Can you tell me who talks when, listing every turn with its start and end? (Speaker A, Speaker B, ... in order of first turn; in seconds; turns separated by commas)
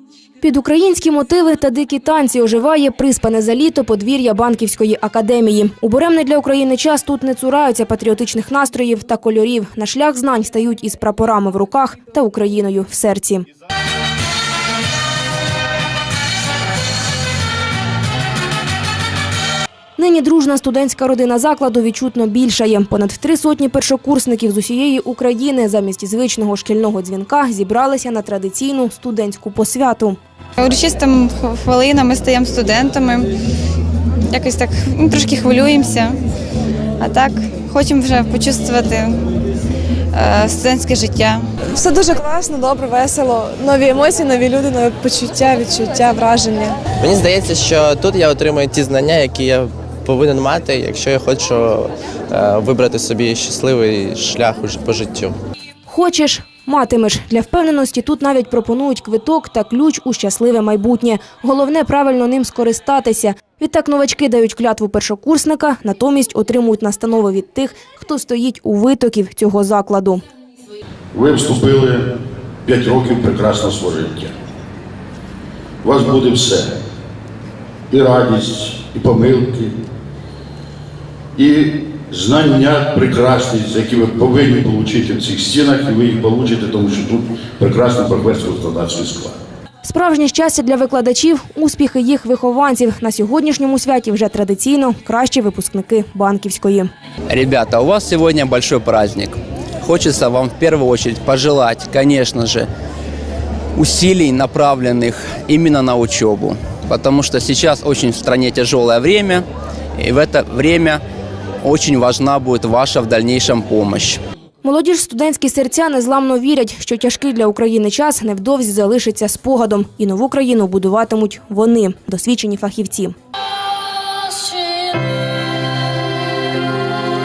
Speaker A: 0.4-13.4, Speaker A: 20.0-30.2, Speaker B: 30.6-33.3, Speaker B: 34.3-36.2, Speaker B: 37.0-39.2, Speaker B: 40.1-41.4, Speaker C: 41.8-46.8, Speaker D: 47.0-55.3, Speaker A: 55.9-70.2, Speaker E: 71.1-72.1, Speaker E: 72.6-74.3, Speaker E: 75.8-76.8, Speaker E: 77.9-79.7, Speaker E: 81.3-89.3, Speaker A: 89.8-96.9, Speaker F: 97.3-102.7, Speaker F: 103.7-109.4, Speaker F: 110.0-111.0, Speaker F: 111.6-114.2, Speaker A: 114.6-123.1